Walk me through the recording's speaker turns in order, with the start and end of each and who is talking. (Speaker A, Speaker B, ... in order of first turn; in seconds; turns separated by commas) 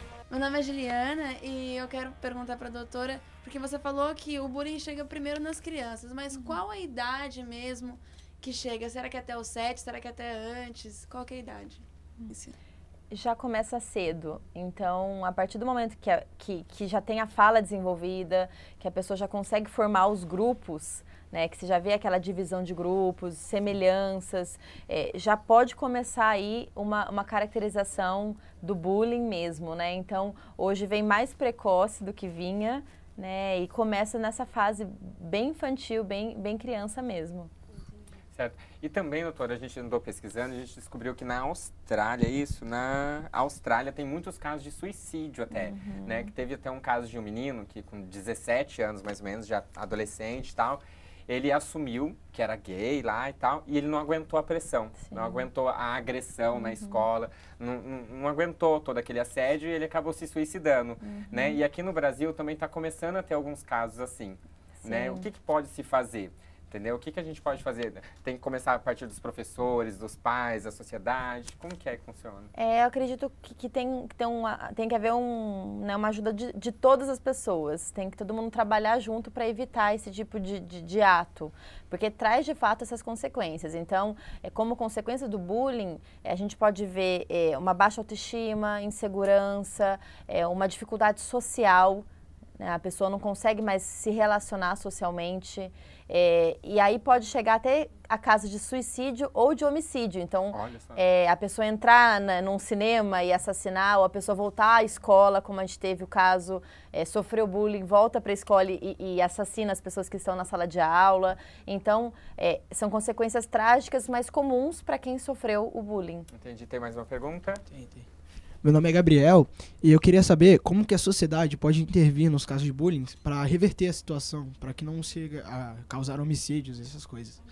Speaker A: 0.3-12.6, Speaker B: 13.1-37.5, Speaker C: 38.4-72.5, Speaker B: 45.5-46.3, Speaker B: 55.0-55.5, Speaker B: 56.5-57.0, Speaker B: 61.0-61.6, Speaker B: 64.8-65.3, Speaker B: 72.6-92.1, Speaker B: 92.6-116.3, Speaker C: 100.5-101.0, Speaker C: 116.3-117.6, Speaker D: 117.7-118.0, Speaker D: 118.6-127.4